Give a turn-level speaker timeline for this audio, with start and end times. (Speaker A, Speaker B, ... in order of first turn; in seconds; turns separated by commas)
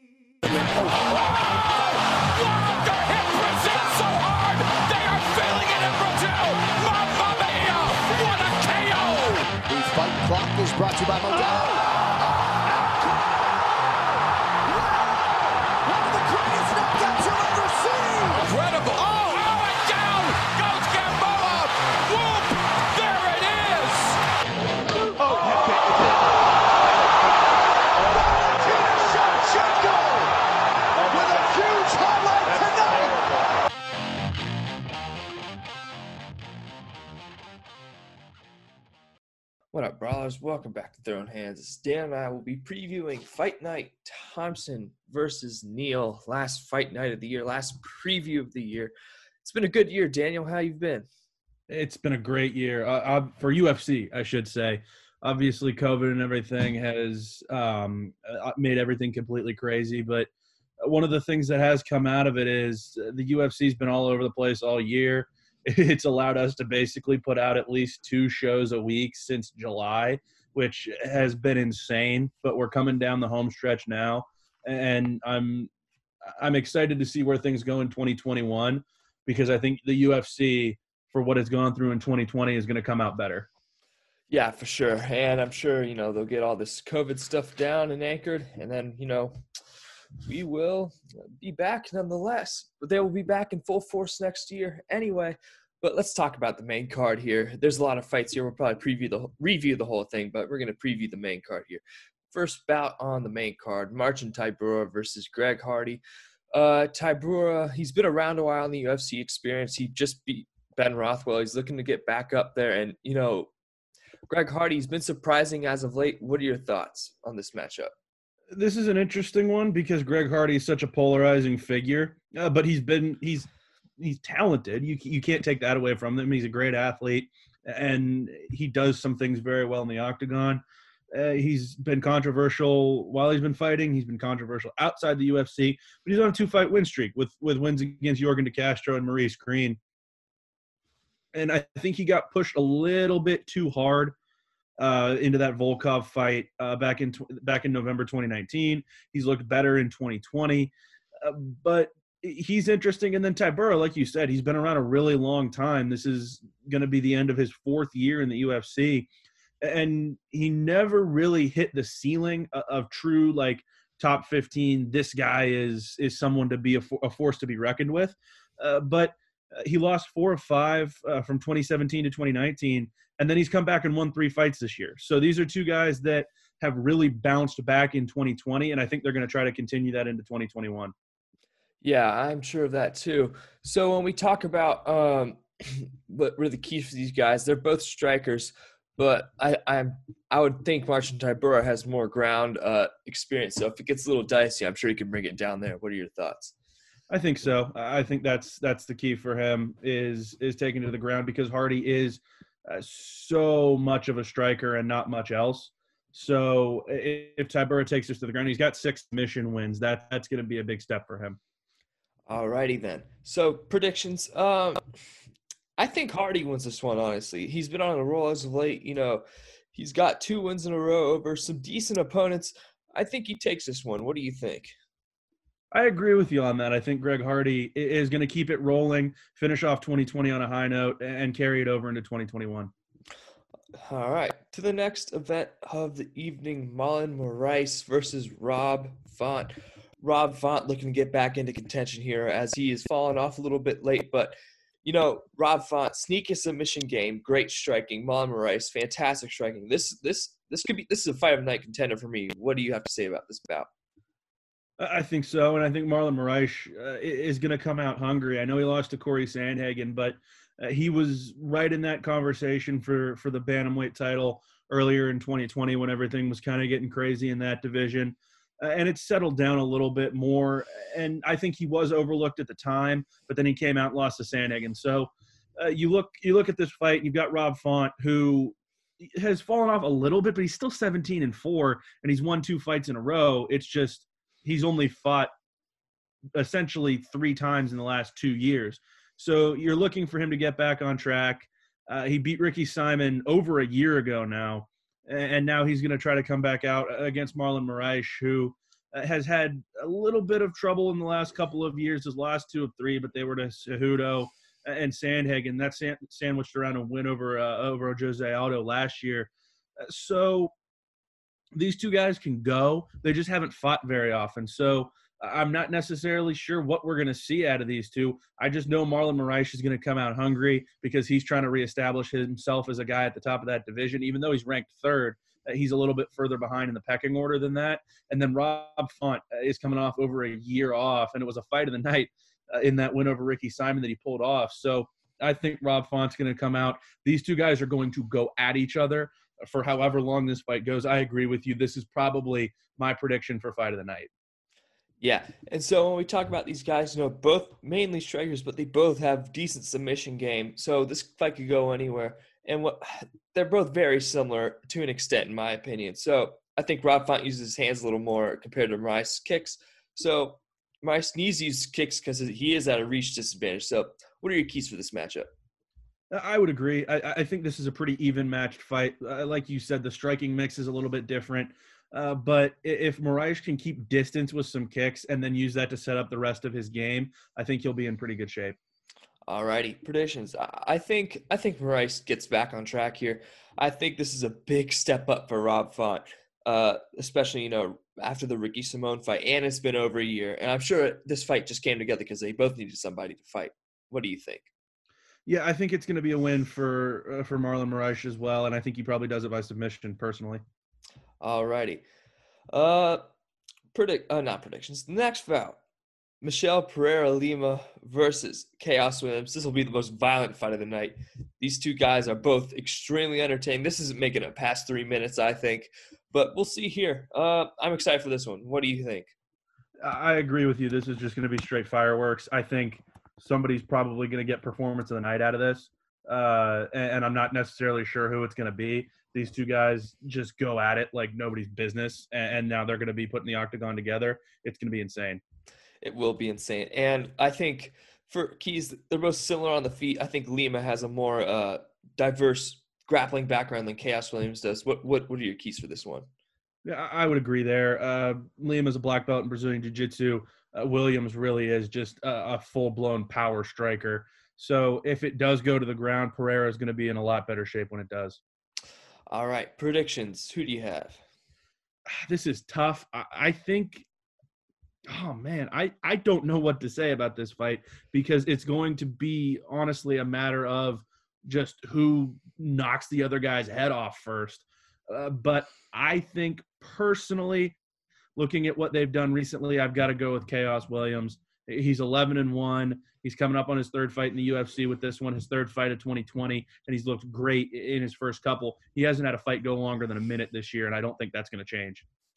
Speaker A: 0.5-13.4, Speaker A: 14.7-24.2, Speaker A: 25.3-25.7, Speaker B: 25.4-25.8, Speaker A: 28.1-30.4, Speaker A: 31.0-33.6, Speaker C: 39.7-51.1, Speaker B: 51.7-60.3, Speaker B: 60.8-75.7, Speaker B: 76.4-83.5, Speaker C: 84.3-89.3, Speaker C: 90.2-106.0, Speaker C: 106.5-113.5, Speaker C: 114.3-117.9, Speaker B: 118.5-123.5, Speaker B: 124.0-130.6, Speaker B: 131.1-139.8, Speaker B: 141.3-144.2, Speaker B: 144.8-159.1, Speaker B: 159.6-180.9, Speaker C: 181.8-196.5, Speaker B: 197.1-211.4, Speaker C: 212.3-214.8, Speaker C: 215.8-224.7, Speaker B: 225.7-232.7, Speaker C: 233.8-253.7, Speaker B: 254.8-278.6, Speaker B: 279.1-285.3, Speaker B: 286.3-310.5, Speaker B: 311.5-344.1, Speaker C: 345.0-365.3, Speaker B: 366.1-378.6, Speaker C: 379.3-394.5, Speaker B: 395.2-400.4, Speaker C: 401.2-401.8, Speaker C: 402.5-403.0, Speaker C: 403.7-405.6, Speaker C: 406.2-419.1, Speaker B: 419.8-435.2, Speaker C: 435.8-446.1, Speaker B: 446.6-458.2, Speaker C: 459.1-461.0, Speaker B: 461.9-463.9, Speaker B: 464.9-477.5, Speaker B: 478.1-491.8